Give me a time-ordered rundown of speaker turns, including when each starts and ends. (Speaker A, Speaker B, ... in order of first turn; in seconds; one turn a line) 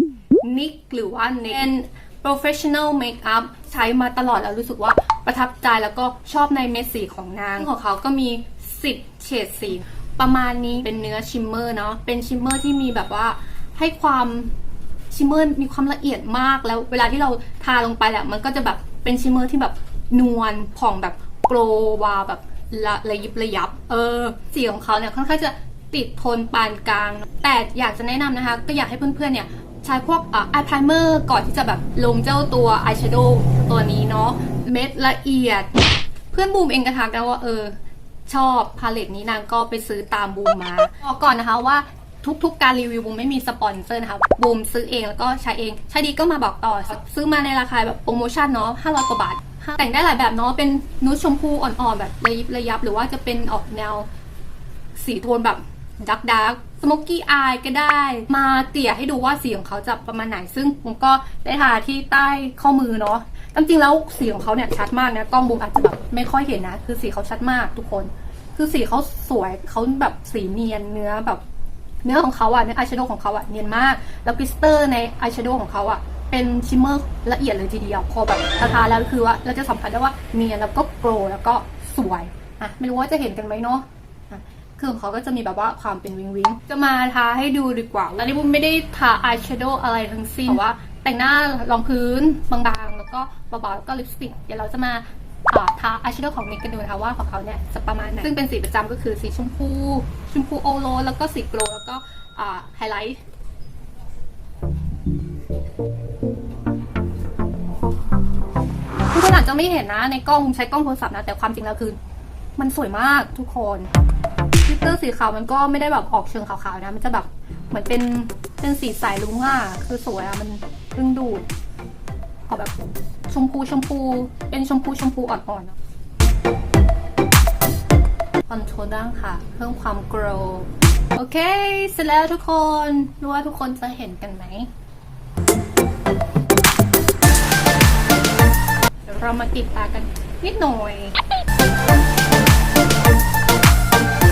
Speaker A: 0.4-14.5
Speaker A: 15.1-35.7
Speaker A: 36.3-37.7
Speaker A: 38.3-54.1
Speaker A: 55.0-71.4
Speaker A: 72.0-103.2
Speaker A: 109.1-112.0
Speaker A: 112.6-113.9
Speaker A: 114.7-121.5
Speaker A: 122.5-125.8
Speaker A: 128.5-134.7
Speaker A: 139.1-141.2